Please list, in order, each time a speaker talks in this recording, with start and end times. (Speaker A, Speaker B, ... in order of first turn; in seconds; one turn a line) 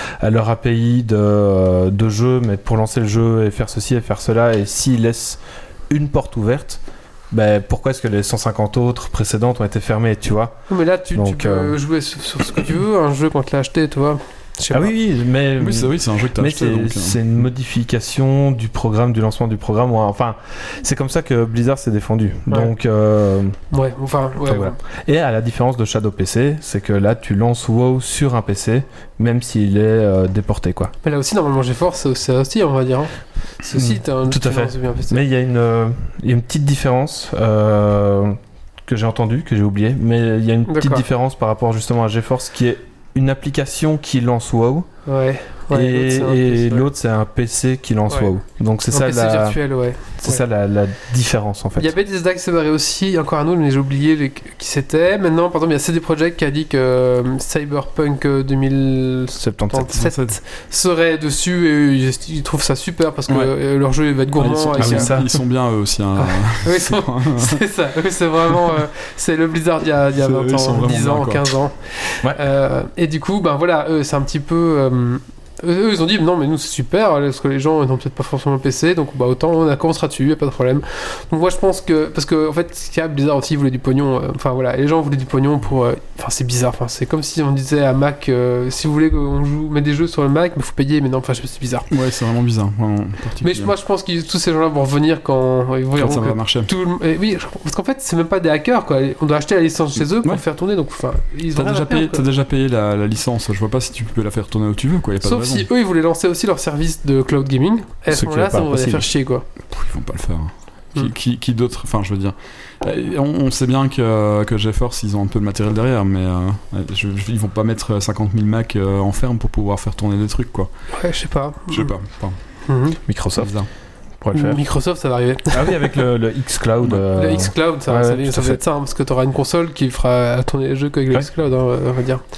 Speaker A: 0.2-10.6
Speaker B: 10.7-14.9
Speaker A: 11.1-11.7
Speaker A: 14.7-23.6
Speaker C: 15.6-17.2
Speaker B: 23.7-24.8
Speaker A: 24.4-30.9
Speaker B: 31.0-35.2
Speaker A: 33.7-44.9
Speaker B: 40.7-41.0
Speaker B: 45.0-46.9
Speaker A: 45.7-51.9
Speaker B: 48.9-50.4
Speaker B: 51.8-65.2
Speaker A: 59.4-60.1
Speaker C: 60.0-60.4
Speaker C: 63.3-63.5
Speaker C: 64.4-67.6
Speaker A: 64.8-65.4
Speaker B: 66.2-91.9
Speaker C: 70.2-71.5
Speaker C: 91.9-93.7
Speaker B: 93.4-102.2
Speaker C: 96.0-96.7
Speaker C: 100.0-100.4
Speaker C: 101.5-105.7
Speaker B: 105.2-109.5
Speaker A: 108.1-109.1
Speaker C: 109.7-120.7
Speaker B: 120.9-121.9
Speaker C: 121.7-122.4
Speaker B: 122.7-123.0
Speaker A: 123.0-123.6
Speaker C: 123.3-123.7
Speaker A: 124.2-124.6
Speaker B: 124.3-125.9
Speaker A: 125.5-128.6
Speaker B: 127.1-132.2